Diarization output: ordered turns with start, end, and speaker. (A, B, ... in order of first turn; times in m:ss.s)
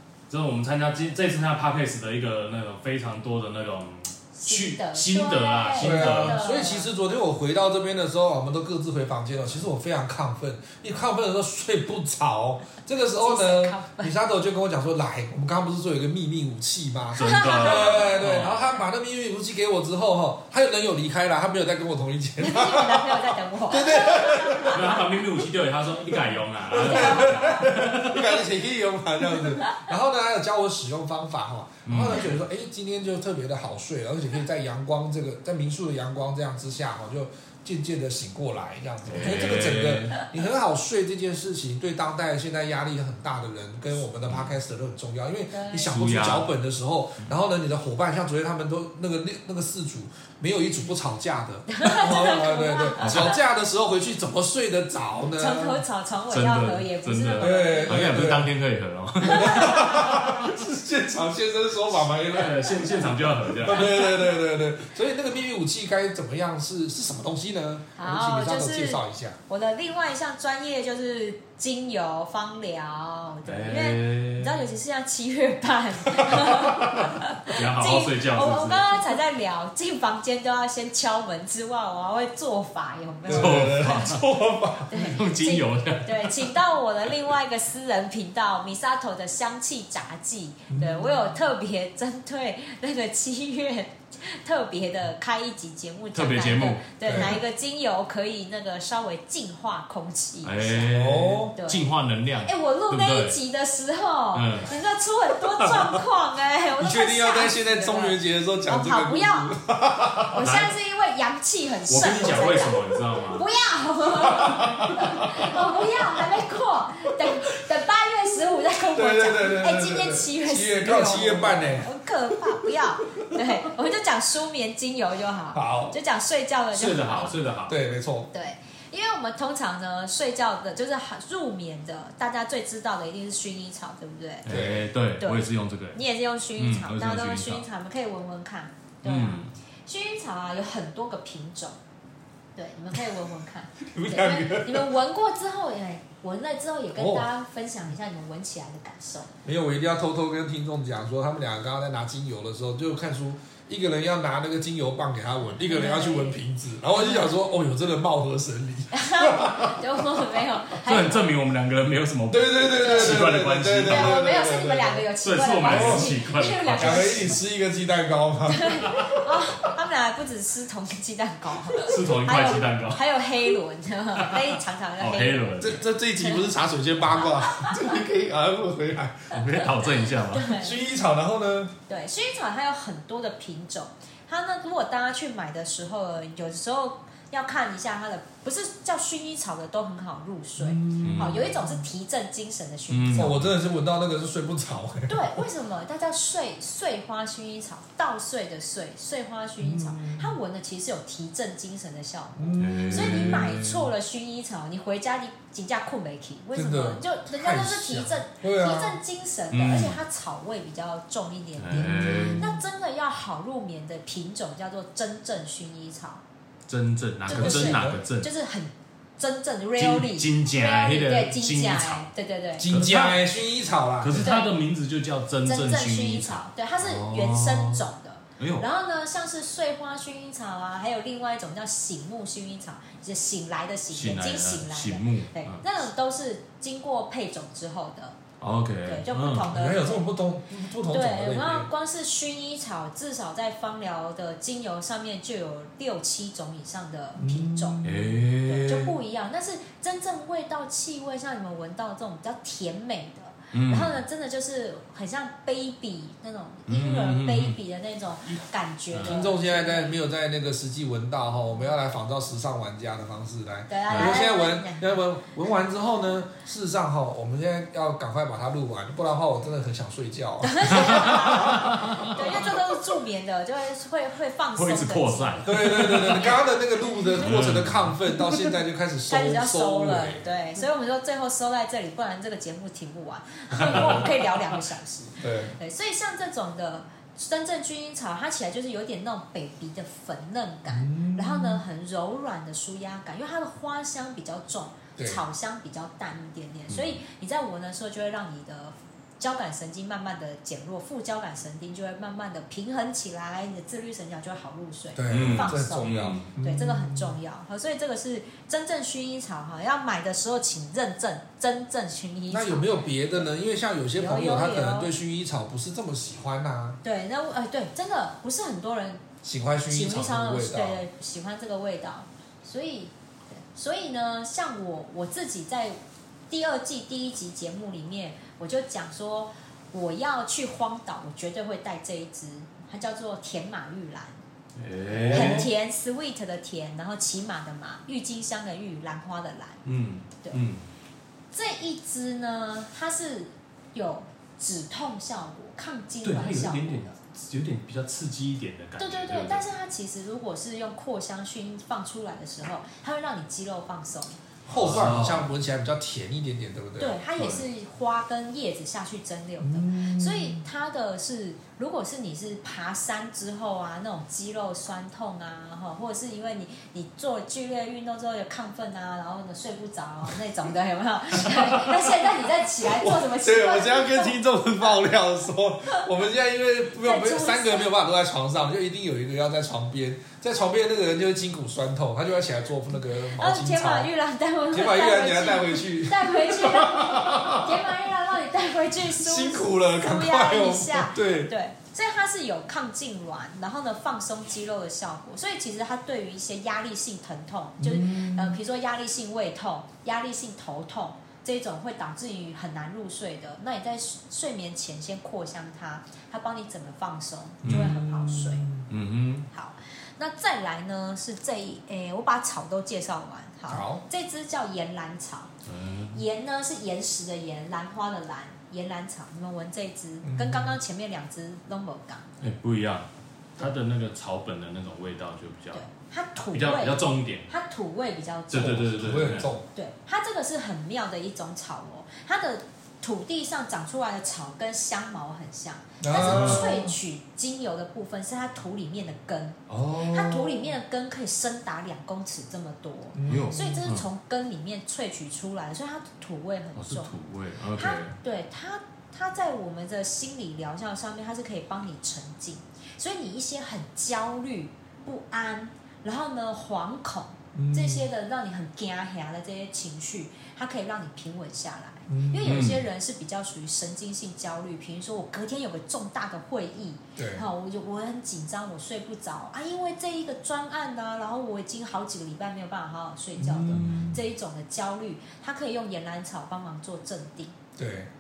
0:00.3-0:06.5 A
0:04.4-0:06.9 B
0:05.8-0:25.1 C
0:13.2-0:14.1 B
0:17.2-0:18.6 A
0:17.2-0:18.2 B
0:22.4-0:25.0 B
0:24.6-0:28.4 A
0:26.2-0:55.8 C
0:26.8-0:27.7 B
0:31.9-0:32.4 A
0:39.0-0:40.2 A
0:39.2-0:39.6 B
0:45.5-0:45.9 B
0:45.9-0:46.5 A
0:51.7-0:53.4 B
0:53.0-0:53.4 A
0:55.4-0:58.1 B
0:56.3-1:00.3 A
0:57.4-0:58.5 C
0:59.2-1:09.4 C
0:59.2-1:00.3 B
1:02.3-1:03.9 A
1:08.0-1:24.2 B
1:13.5-1:14.6 A
1:16.3-1:16.8 C
1:17.5-1:18.9 A
1:23.3-1:25.1 C
1:23.3-1:24.3 A
1:24.9-1:40.9 B
1:24.9-1:26.5 A
1:30.7-1:31.2 C
1:36.2-1:37.4 A
1:37.1-1:37.4 C
1:40.4-1:43.4 A
1:40.8-1:41.6 C
1:41.6-1:41.9 B
1:42.4-1:49.5 B
1:44.3-1:44.7 A
1:46.8-1:50.4 C
1:50.3-2:07.4 B
1:50.4-1:50.8 A
1:51.9-1:53.4 A
1:54.3-1:55.5 C
1:59.0-2:01.9 C
2:05.5-2:06.0 C
2:06.7-2:07.8 A
2:07.7-2:08.3 C
2:08.3-2:14.5 B
2:14.4-2:16.0 A
2:14.5-2:14.9 C
2:15.2-2:21.8 B
2:16.6-2:17.6 A
2:19.0-2:19.5 A
2:22.6-2:29.3 B
2:23.9-2:24.9 C
2:27.0-2:27.3 C
2:29.4-2:39.8 C
2:35.6-2:36.4 B
2:36.9-2:37.3 B
2:38.9-2:41.3 B
2:40.8-2:44.3 A
2:42.3-2:45.1 C
2:42.8-2:43.2 B
2:43.8-2:47.4 B
2:45.2-2:47.4 A
2:45.6-2:46.1 C
2:46.8-2:49.4 C
2:48.5-2:55.6 B
2:51.8-2:53.0 A
2:55.0-2:55.8 A
2:55.6-2:59.6 C
2:57.2-2:57.8 B
2:59.3-3:00.6 A
3:00.3-3:00.8 B
3:00.5-3:01.8 C
3:01.9-3:13.4 B
3:10.6-3:11.8 C
3:11.0-3:11.6 A
3:12.9-3:13.5 A
3:13.1-3:15.4 C
3:15.1-3:36.2 B
3:19.6-3:20.3 C
3:22.4-3:23.7 C
3:22.6-3:23.7 A
3:26.6-3:29.0 C
3:29.5-3:30.0 A
3:31.6-3:32.5 A
3:31.7-3:32.6 C
3:36.7-3:38.3 A
3:37.3-3:42.7 B
3:37.3-3:38.0 C
3:39.8-3:42.1 A
3:42.6-3:44.3 C
3:42.7-3:43.2 A
3:44.0-3:47.8 A
3:44.2-3:44.5 B
3:45.4-3:58.2 B
3:48.4-3:48.7 A
3:53.9-3:55.6 A
3:58.4-3:59.5 A
3:58.8-4:00.1 B
3:59.5-4:01.7 C
4:00.9-4:07.8 B
4:07.2-4:08.3 C
4:07.8-4:08.9 A
4:08.5-4:20.0 B
4:13.5-4:14.0 A
4:16.7-4:17.6 A
4:18.9-4:19.2 A
4:19.0-4:31.8 C
4:23.7-4:25.0 B
4:23.9-4:24.2 A
4:30.4-4:37.2 B
4:30.8-4:32.1 A
4:34.6-4:36.3 A
4:35.4-4:40.3 C
4:37.2-4:38.0 A
4:39.1-5:12.8 B
4:43.6-4:44.1 C
4:43.7-4:44.0 A
4:45.2-4:45.6 C
4:50.7-4:51.6 C
4:56.7-4:57.0 A
5:05.0-5:07.2 C
5:05.1-5:06.3 A
5:12.3-5:16.8 C
5:14.0-5:14.9 B
5:16.8-5:19.0 B
5:19.2-5:20.8 C
5:19.7-5:25.8 B
5:26.3-5:34.2 B
5:34.6-5:35.5 A
5:34.9-5:35.5 C
5:35.1-5:39.6 B
5:39.6-5:40.6 A
5:41.3-5:47.0 B
5:46.0-5:49.4 A
5:48.8-5:54.2 B
5:54.5-5:55.3 A
5:54.5-5:57.0 C
5:56.8-6:14.2 B
5:59.4-6:00.4 C
6:11.2-6:12.0 C
6:12.7-6:23.9 C
6:16.8-6:17.7 B
6:23.2-6:48.5 B
6:24.5-6:27.7 C
6:29.0-6:31.3 C
6:37.6-6:38.4 C
6:47.4-6:48.7 C
6:47.4-6:47.7 A
6:48.7-6:49.3 A
6:49.3-6:55.3 B
6:53.5-6:53.8 C
6:55.5-6:56.0 A
6:55.9-7:02.1 B
7:00.0-7:00.6 C
7:02.2-7:02.9 A
7:03.4-7:05.6 A
7:05.5-7:08.7 B
7:06.3-7:07.3 A
7:08.3-7:09.3 A
7:08.4-7:09.5 C
7:09.5-7:26.9 B
7:15.8-7:16.8 C
7:16.0-7:16.5 A
7:19.5-7:20.4 C
7:22.9-7:23.4 C
7:23.1-7:23.9 A
7:26.6-7:28.0 A
7:27.5-7:57.4 B
7:37.4-7:37.9 C
7:41.9-7:42.5 C
7:42.2-7:42.6 A
7:47.0-7:47.2 C
7:53.2-7:54.0 C
7:57.6-7:57.9 C